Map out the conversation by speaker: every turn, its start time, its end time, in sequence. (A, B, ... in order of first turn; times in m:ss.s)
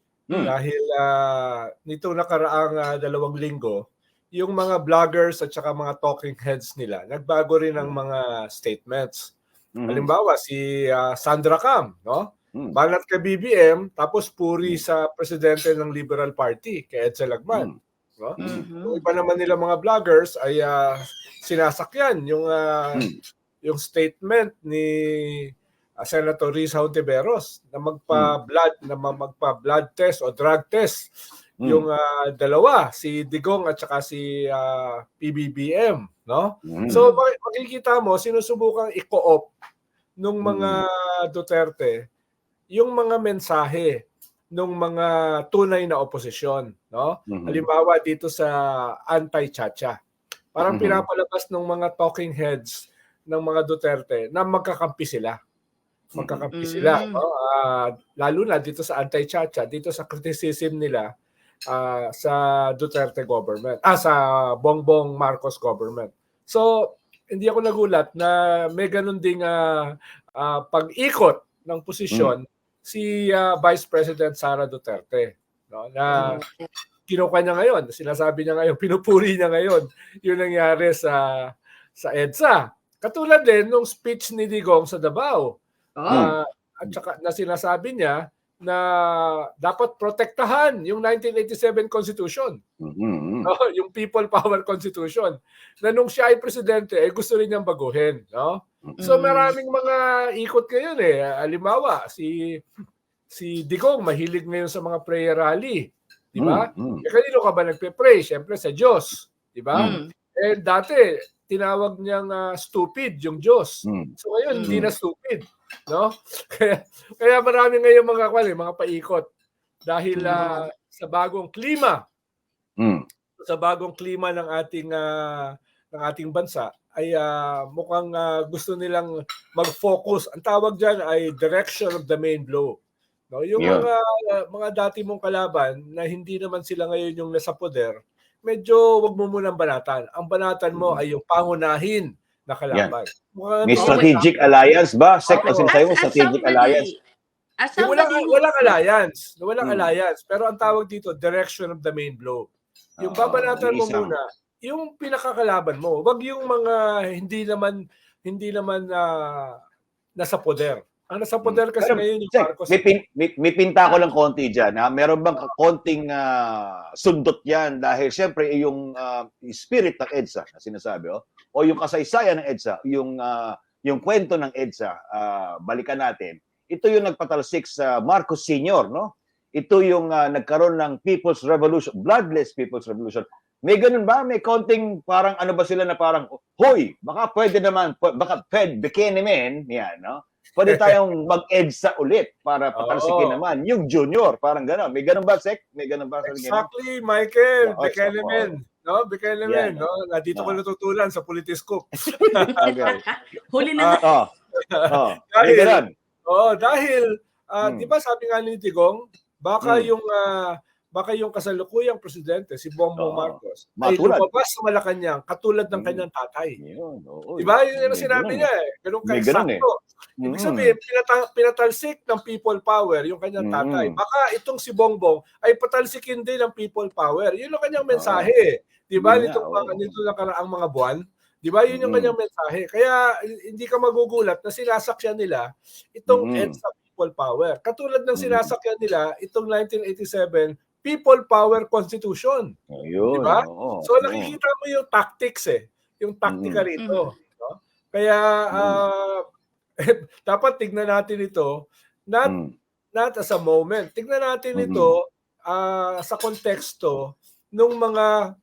0:00.3-0:03.8 A
0:04.4-0:09.3 A
0:09.8-0:10.1 B
0:09.9-0:23.0 A
0:18.4-0:18.7 B
0:18.4-0:19.0 C
0:23.6-0:25.5 A
0:26.0-0:31.1 A
0:31.6-0:39.5 A
0:36.7-0:37.0 B
0:36.9-0:37.2 C
0:40.2-0:42.0 A
0:40.4-0:40.8 B
0:42.7-0:44.0 A
0:44.6-0:48.6 A
0:47.3-0:47.6 B
0:49.1-0:50.0 A
0:50.6-0:55.4 A
0:50.6-0:51.0 B
0:56.1-1:01.1 A
0:56.2-0:56.4 B
0:56.6-0:57.2 C
1:01.7-1:09.8 A
1:10.4-1:16.4 A
1:16.1-1:16.7 C
1:17.1-1:25.6 A
1:26.0-1:26.3 C
1:26.1-1:26.4 B
1:26.1-1:32.6 A
1:32.8-1:33.5 B
1:33.4-1:42.4 A
1:39.0-1:39.6 C
1:43.3-1:59.2 A
1:46.4-1:47.0 B
1:49.8-1:50.1 C
1:53.9-1:54.1 B
1:54.5-1:54.8 C
1:54.7-1:54.9 B
1:59.9-2:02.0 A
2:00.1-2:00.4 B
2:00.2-2:00.6 C
2:03.4-2:05.1 A
2:05.9-2:12.8 A
2:13.3-2:24.3 A
2:13.6-2:13.9 B
2:20.7-2:21.0 B
2:23.6-2:26.9 B
2:23.8-2:24.2 C
2:25.3-2:25.8 A
2:25.4-2:27.0 C
2:27.6-2:28.8 C
2:27.8-2:32.5 A
2:29.6-2:29.9 B
2:33.0-2:34.1 B
2:33.0-2:39.6 A
2:40.2-2:42.8 A
2:41.4-3:16.6 B
3:10.7-3:11.0 A
3:12.7-3:13.4 A
3:16.3-3:22.6 A
3:17.6-3:18.5 B
3:19.4-3:19.8 B
3:20.3-3:20.6 B
3:22.5-3:24.0 C
3:22.6-3:23.0 B
3:24.0-3:24.3 B
3:24.6-3:36.6 A
3:24.9-3:25.9 B
3:27.6-3:27.9 B
3:29.6-3:29.9 B
3:33.0-3:34.2 B
3:35.7-3:36.0 B
3:36.6-3:38.5 B
3:37.4-3:39.7 A
3:39.0-3:39.6 B
3:40.2-3:40.8 B
3:40.2-4:02.5 A
3:43.4-3:44.0 B
3:47.9-3:48.3 B
3:49.0-3:49.9 B
3:51.7-3:52.1 B
3:56.1-3:56.6 B
3:58.2-3:58.5 B
4:02.7-4:04.4 B
4:03.1-4:09.2 A
4:06.3-4:06.7 B
4:06.8-4:07.1 C
4:08.5-4:08.8 B
4:09.8-4:11.5 A
4:12.2-4:12.5 B
4:12.9-4:18.1 A
4:14.6-4:14.9 B